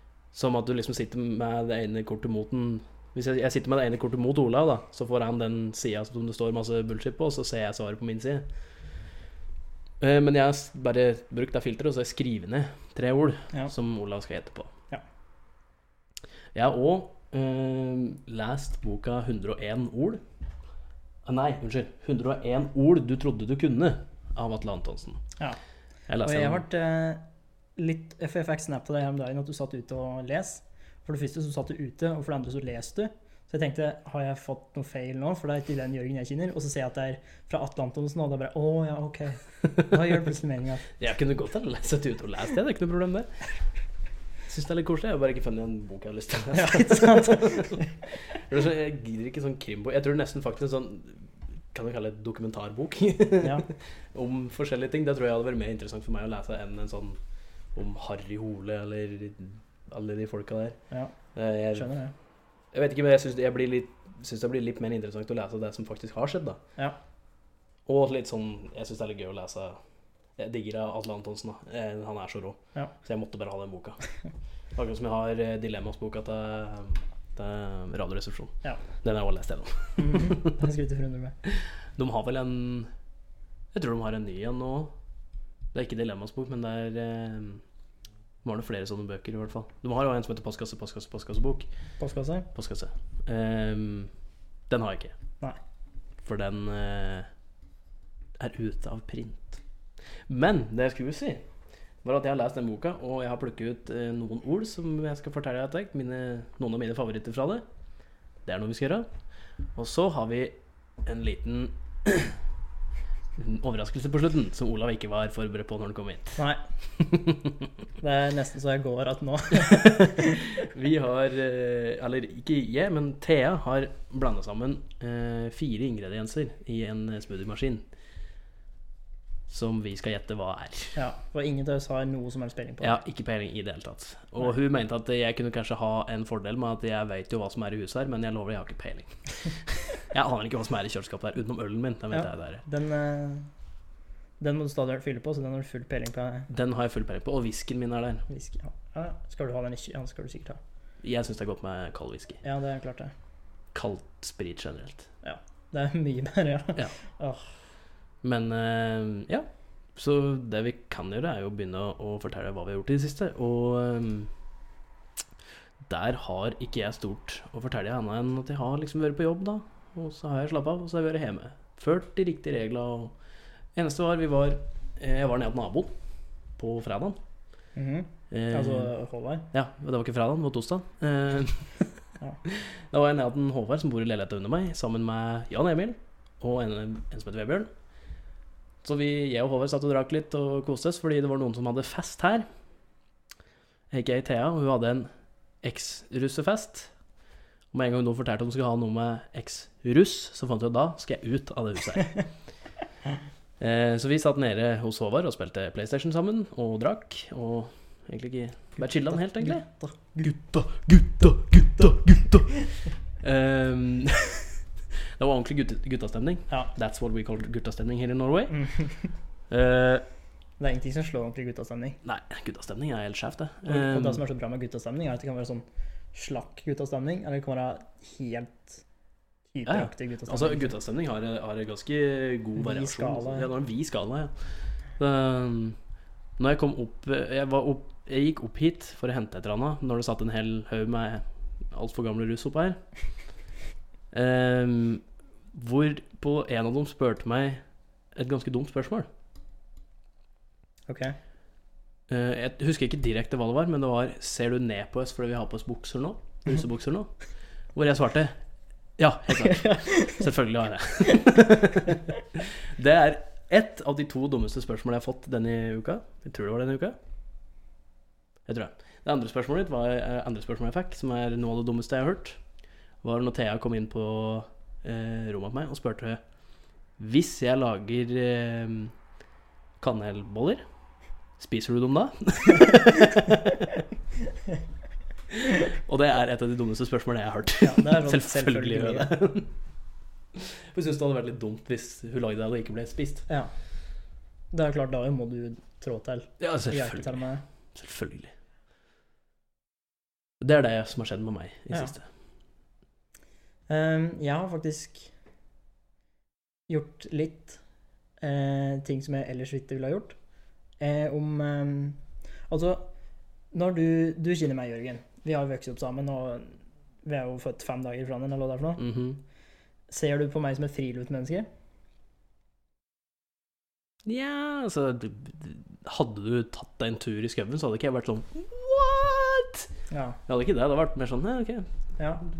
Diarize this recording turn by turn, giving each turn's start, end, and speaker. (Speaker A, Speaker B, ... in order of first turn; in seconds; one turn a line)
Speaker A: 0.3-8.5
Speaker A: 10.0-14.7
Speaker A: 16.5-20.2
Speaker A: 21.2-25.2
Speaker A: 26.1-26.6
Speaker B: 26.2-27.2
Speaker B: 27.8-40.9
Speaker A: 41.0-43.5
Speaker A: 44.5-57.2
Speaker B: 46.5-47.9
Speaker A: 57.8-60.8
Speaker A: 61.3-61.9
Speaker B: 61.7-62.1
Speaker A: 62.7-66.6
Speaker A: 67.9-69.8
Speaker A: 70.4-74.0
Speaker A: 74.8-80.6
Speaker B: 80.0-81.4
Speaker A: 81.5-82.9
Speaker A: 83.7-84.9
Speaker A: 85.7-87.6
Speaker A: 88.4-91.7
Speaker B: 92.0-92.5
Speaker A: 92.5-94.1
Speaker A: 94.7-95.1
Speaker A: 96.2-97.3
Speaker A: 98.4-99.6
Speaker A: 100.3-101.4
Speaker A: 102.0-107.6
Speaker A: 108.5-109.1
Speaker A: 109.8-112.3
Speaker A: 113.4-116.4
Speaker B: 116.4-116.6
Speaker A: 117.0-117.6
Speaker B: 118.0-120.6
Speaker A: 119.6-127.8
Speaker A: 129.5-131.0
Speaker B: 130.9-133.0
Speaker A: 132.8-142.6
Speaker B: 142.1-143.5
Speaker B: 144.4-146.5
Speaker A: 146.5-148.2
Speaker B: 148.3-150.6
Speaker A: 151.0-152.4
Speaker B: 152.4-153.1
Speaker A: 153.7-155.1
Speaker B: 155.2-157.4
Speaker A: 158.2-164.3
Speaker A: 165.9-173.1
Speaker A: 173.8-175.9
Speaker A: 176.6-177.2
Speaker B: 177.8-179.5
Speaker A: 178.3-178.9
Speaker A: 179.5-181.9
Speaker A: 182.4-187.7
Speaker A: 188.8-192.4
Speaker A: 193.9-195.1
Speaker A: 195.6-196.9
Speaker A: 197.7-202.2
Speaker A: 203.6-214.6
Speaker B: 208.8-210.2
Speaker A: 215.2-218.7
Speaker B: 218.5-219.1
Speaker A: 219.5-220.0
Speaker B: 220.6-222.0
Speaker A: 222.0-224.2
Speaker B: 223.7-228.8
Speaker B: 229.5-230.7
Speaker A: 229.7-234.3
Speaker B: 232.6-233.5
Speaker A: 235.0-235.8
Speaker A: 236.4-242.8
Speaker A: 244.1-247.6
Speaker A: 248.1-249.1
Speaker B: 250.9-251.2
Speaker A: 252.1-257.1
Speaker A: 257.8-258.4
Speaker A: 259.0-267.0
Speaker B: 259.4-260.2
Speaker A: 268.5-272.4
Speaker A: 273.0-276.2
Speaker A: 277.0-278.9
Speaker A: 279.8-280.6
Speaker A: 281.4-283.8
Speaker A: 285.3-289.5
Speaker B: 287.6-289.1
Speaker A: 290.4-293.3
Speaker B: 294.5-297.4
Speaker A: 296.4-297.2
Speaker A: 297.8-298.3
Speaker A: 300.4-302.1
Speaker B: 303.7-305.1
Speaker B: 306.7-307.6
Speaker B: 308.2-310.2
Speaker B: 310.8-312.9
Speaker B: 313.5-318.8
Speaker A: 318.8-319.2
Speaker B: 319.9-321.5
Speaker A: 324.1-329.7
Speaker B: 329.9-330.2
Speaker A: 330.3-331.7
Speaker B: 332.0-332.2